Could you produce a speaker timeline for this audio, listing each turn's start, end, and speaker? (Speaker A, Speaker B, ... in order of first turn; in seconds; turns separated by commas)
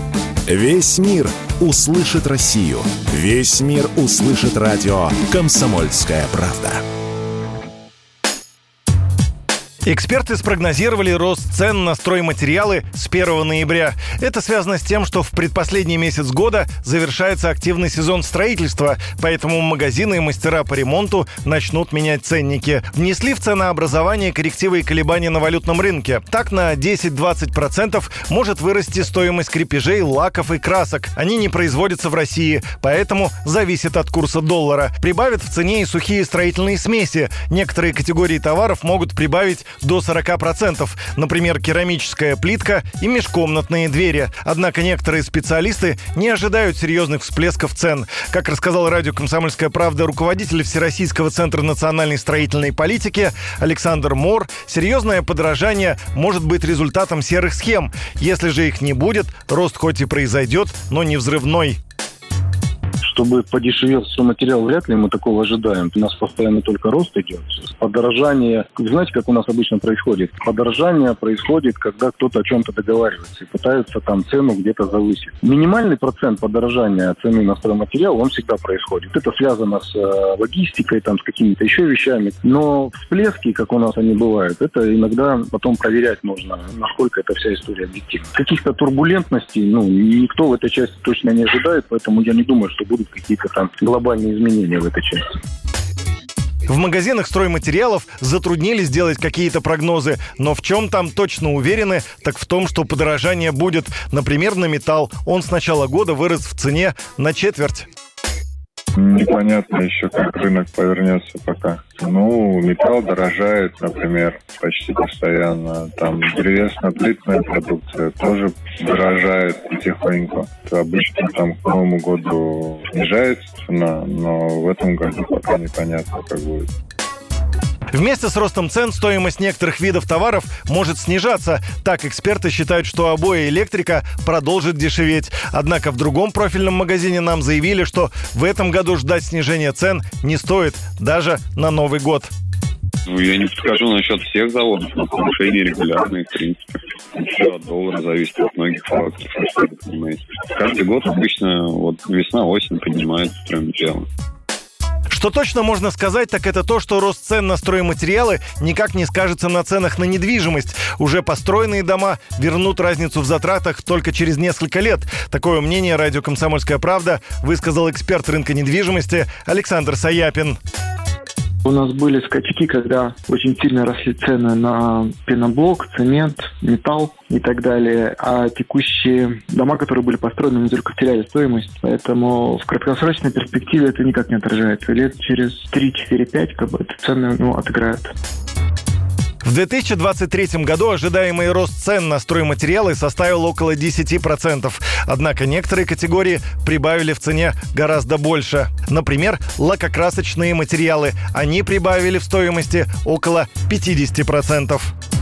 Speaker A: 0.5-6.8, Speaker B: 9.8-61.8, Speaker C: 63.0-95.3, Speaker B: 96.7-107.9, Speaker D: 109.0-126.7, Speaker B: 127.9-142.3, Speaker E: 143.1-146.6, Speaker E: 147.1-154.1, Speaker B: 155.1-170.6, Speaker F: 171.6-188.1, Speaker B: 189.4-204.9